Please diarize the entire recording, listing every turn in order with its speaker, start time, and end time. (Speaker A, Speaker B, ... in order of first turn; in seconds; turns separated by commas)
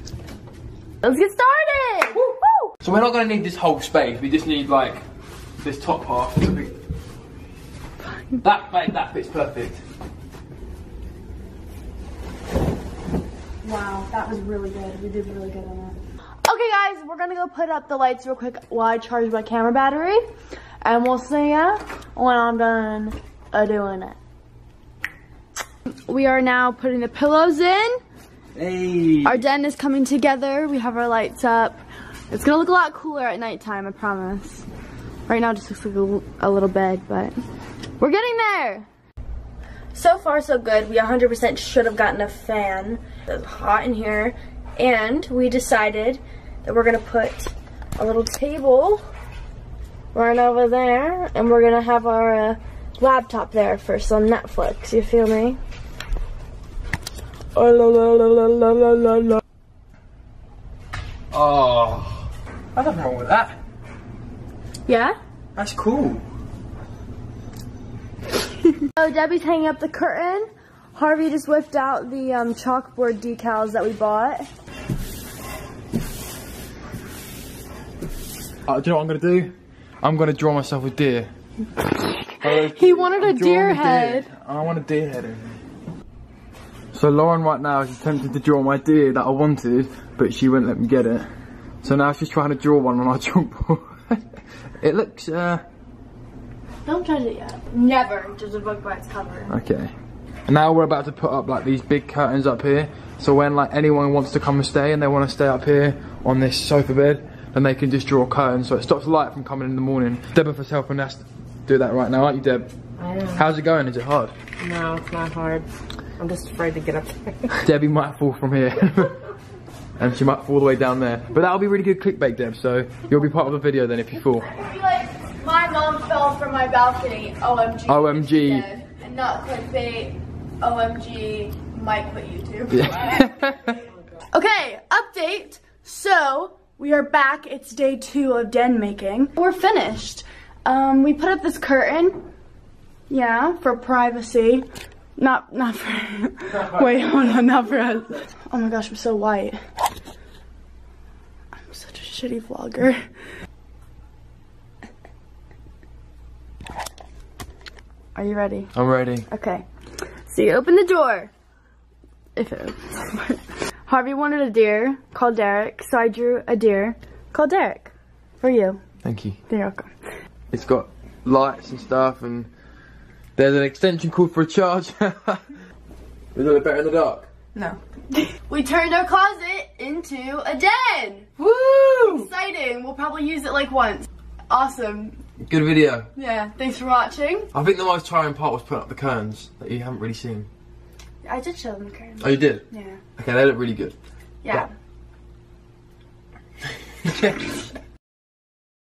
Speaker A: 1.0-2.7, Speaker B: 2.2-5.0, Speaker B: 5.6-6.8, Speaker B: 8.4-9.8, Speaker A: 13.6-20.2, Speaker A: 20.8-24.2, Speaker A: 25.9-28.0, Speaker B: 28.6-29.4, Speaker A: 29.2-34.6, Speaker A: 35.3-37.4, Speaker A: 38.0-38.9, Speaker A: 39.9-49.0, Speaker A: 50.1-55.6, Speaker A: 57.5-59.4, Speaker B: 61.3-63.6, Speaker A: 64.9-65.2, Speaker B: 65.6-66.2, Speaker A: 68.9-74.5, Speaker B: 78.7-81.3, Speaker A: 82.0-84.3, Speaker B: 82.4-85.6, Speaker B: 86.9-91.3, Speaker B: 91.8-94.2, Speaker B: 94.8-95.6, Speaker A: 96.8-99.5, Speaker B: 99.5-99.9, Speaker B: 100.5-112.7, Speaker C: 113.0-113.4, Speaker B: 113.3-114.3, Speaker C: 114.6-117.6, Speaker B: 117.6-119.2, Speaker B: 120.0-124.5, Speaker A: 124.4-133.3, Speaker B: 127.9-128.7, Speaker B: 132.7-133.8, Speaker A: 134.3-142.2, Speaker A: 143.1-144.7, Speaker A: 145.2-149.6, Speaker A: 151.7-153.1, Speaker A: 158.2-158.7, Speaker B: 158.8-159.2, Speaker A: 159.3-159.7, Speaker A: 160.3-161.3, Speaker A: 162.4-168.8, Speaker B: 169.0-169.4, Speaker A: 169.5-169.9, Speaker B: 170.5-172.5, Speaker B: 173.4-175.5, Speaker B: 176.3-177.3, Speaker A: 177.6-181.4, Speaker C: 181.5-182.1, Speaker A: 182.0-185.2, Speaker B: 185.5-186.1, Speaker A: 186.1-187.5, Speaker B: 187.5-190.5, Speaker A: 191.2-193.0, Speaker B: 192.2-192.6, Speaker B: 193.2-194.0, Speaker A: 194.4-194.7, Speaker B: 197.1-197.4